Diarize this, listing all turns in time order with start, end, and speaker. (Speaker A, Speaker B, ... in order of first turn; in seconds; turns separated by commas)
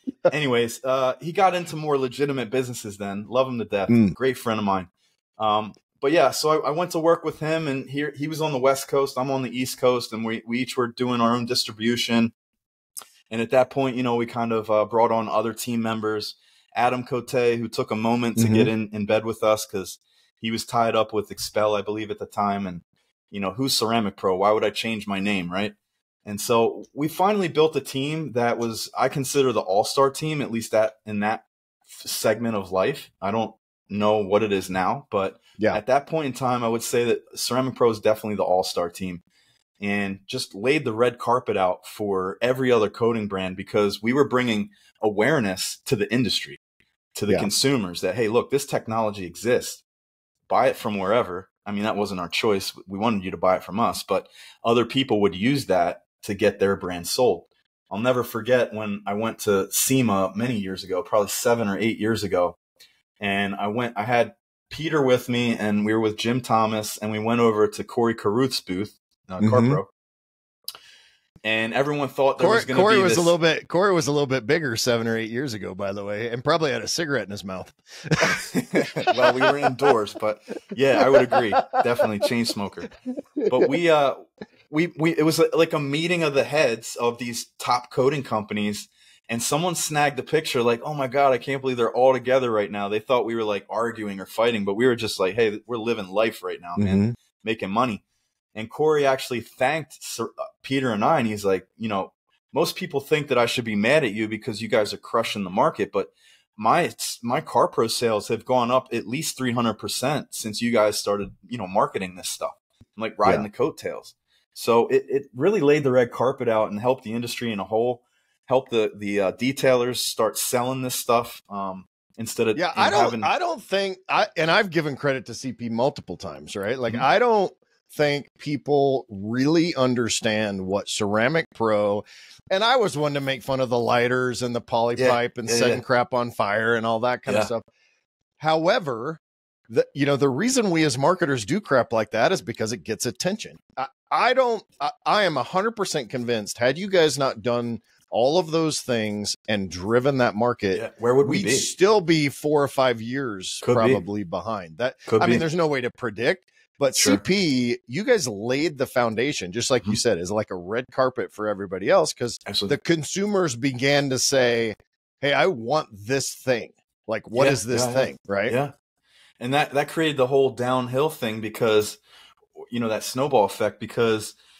Speaker A: 0.3-12.3, Speaker B: 3.9-4.2, Speaker A: 13.3-39.2, Speaker B: 18.4-18.7, Speaker A: 39.8-46.6, Speaker A: 47.1-49.8, Speaker A: 50.5-62.6, Speaker A: 63.2-69.9, Speaker B: 69.4-69.8, Speaker A: 71.4-73.4, Speaker B: 72.4-78.4, Speaker A: 78.3-82.9, Speaker B: 79.0-79.7, Speaker B: 81.2-81.8, Speaker B: 83.4-83.7, Speaker A: 83.5-98.0, Speaker B: 96.8-97.1, Speaker A: 98.5-123.3, Speaker B: 122.5-137.7, Speaker A: 135.0-135.8, Speaker B: 138.4-168.6, Speaker A: 150.7-151.7, Speaker A: 153.6-154.0, Speaker A: 155.1-155.4, Speaker A: 156.9-157.2, Speaker A: 162.5-162.8, Speaker A: 167.3-168.7, Speaker A: 169.4-172.0, Speaker A: 172.7-174.3